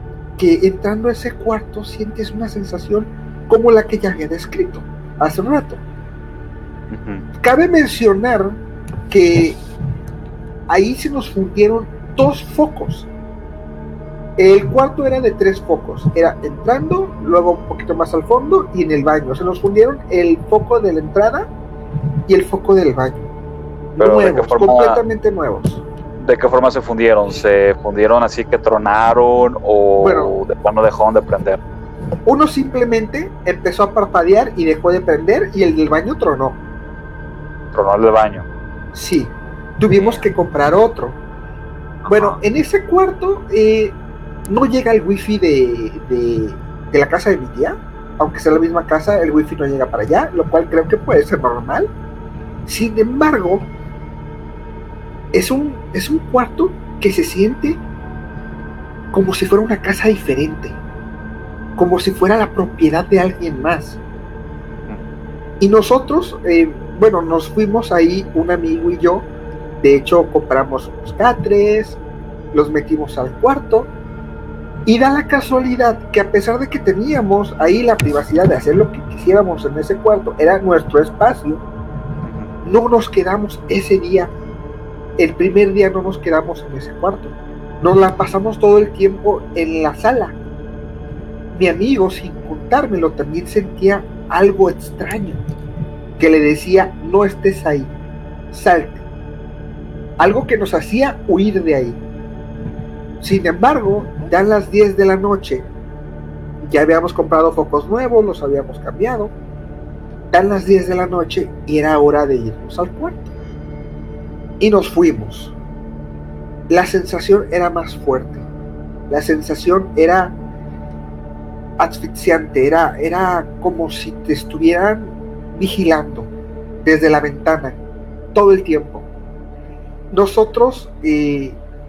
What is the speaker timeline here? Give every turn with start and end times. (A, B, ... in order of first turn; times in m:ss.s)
0:00.4-0:05.8 A
0:06.9-0:07.2 B
0:07.4-0:09.6 A
0:10.7-0:13.1 A
0:14.4-0:21.5 A
0:22.3-0:23.3 A
0:24.0-0:25.8 A
0:24.0-0:25.0 B
0:26.2-0:31.6 B
0:30.0-0:30.3 A
0:32.2-0:36.6 A
0:37.7-0:38.5 B
0:38.9-0:41.2 A
0:40.0-0:40.2 B
0:42.0-0:42.4 B
0:42.1-0:51.9 A
0:52.6-0:53.7 A
0:55.3-0:57.8 A
0:59.1-1:00.8 A
1:01.8-1:04.0 A
1:05.6-1:09.3 A
1:09.8-1:12.0 A
1:12.5-1:13.9 A
1:14.8-1:21.6 A
1:22.2-1:22.5 B
1:22.6-1:24.3 A
1:25.2-1:30.4 A
1:31.5-1:35.4 A
1:36.2-1:38.0 A
1:38.5-1:39.0 A
1:40.2-1:42.0 A
1:43.2-1:45.7 A
1:46.6-1:49.3 A
1:50.3-1:53.3 A
1:54.6-1:55.5 A
1:56.7-1:58.5 A
1:59.1-2:00.4 A
2:01.8-2:06.3 A
2:06.8-2:07.8 A
2:08.3-2:09.1 A
2:10.1-2:11.6 A